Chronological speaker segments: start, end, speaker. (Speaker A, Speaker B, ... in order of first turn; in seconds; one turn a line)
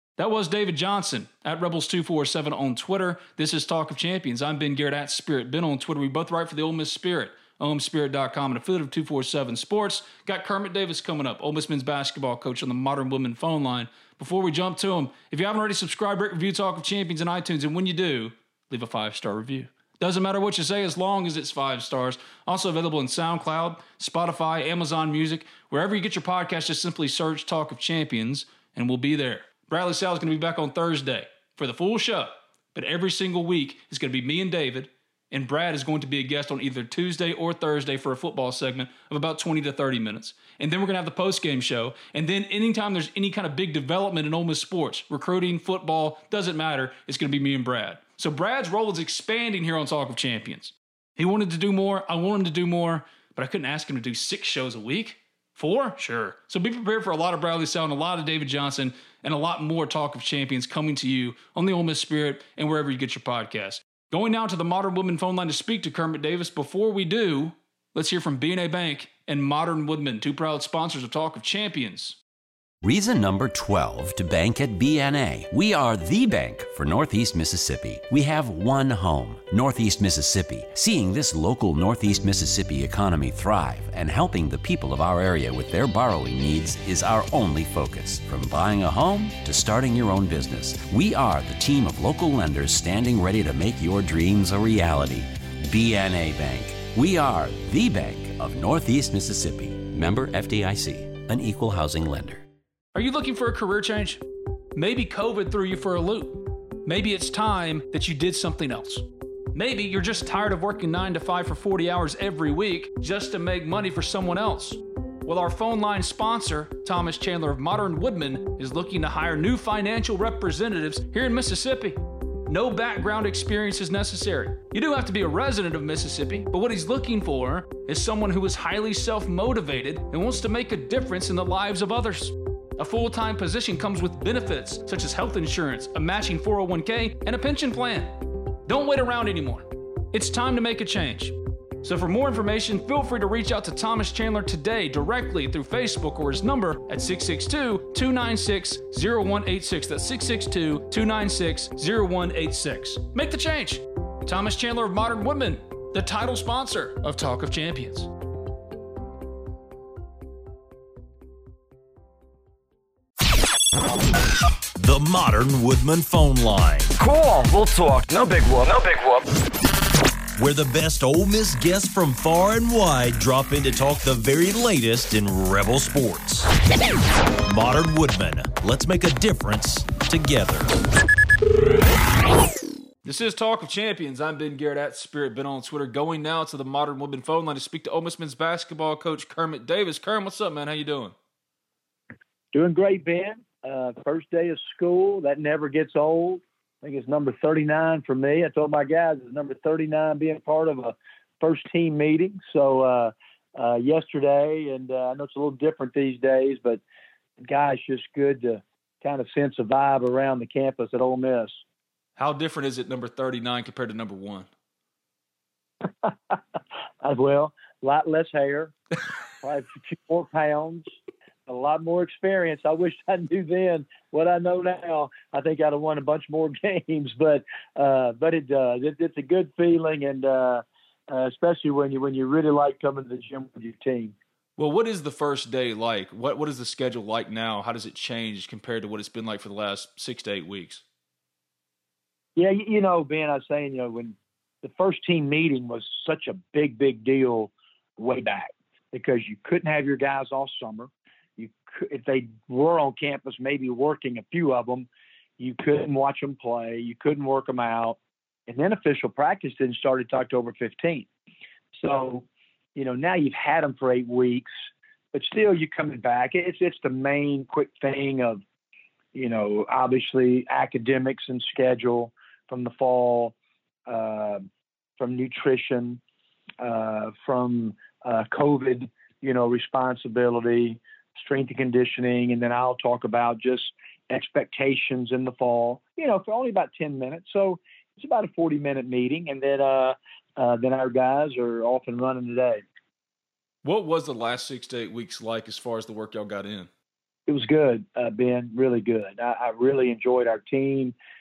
Speaker A: 0.2-72.2
Speaker B: 72.8-102.4
Speaker A: 102.9-104.2
Speaker A: 104.7-158.1
Speaker C: 164.8-166.9
Speaker D: 167.0-169.3
Speaker C: 170.4-176.5
Speaker C: 177.5-180.7
Speaker A: 183.1-191.1
Speaker E: 192.5-206.8
Speaker E: 207.4-211.6
Speaker A: 212.2-214.5
Speaker E: 216.0-216.4
Speaker E: 217.0-218.7
Speaker E: 219.4-234.1
Speaker A: 234.6-240.8
Speaker E: 242.4-254.9
Speaker E: 255.4-261.1
Speaker E: 261.7-264.5
Speaker E: 265.1-268.4
Speaker E: 269.1-273.3
Speaker E: 273.9-274.5
Speaker E: 275.0-276.0
Speaker E: 276.6-292.6
Speaker A: 293.6-296.7
Speaker E: 297.3-300.9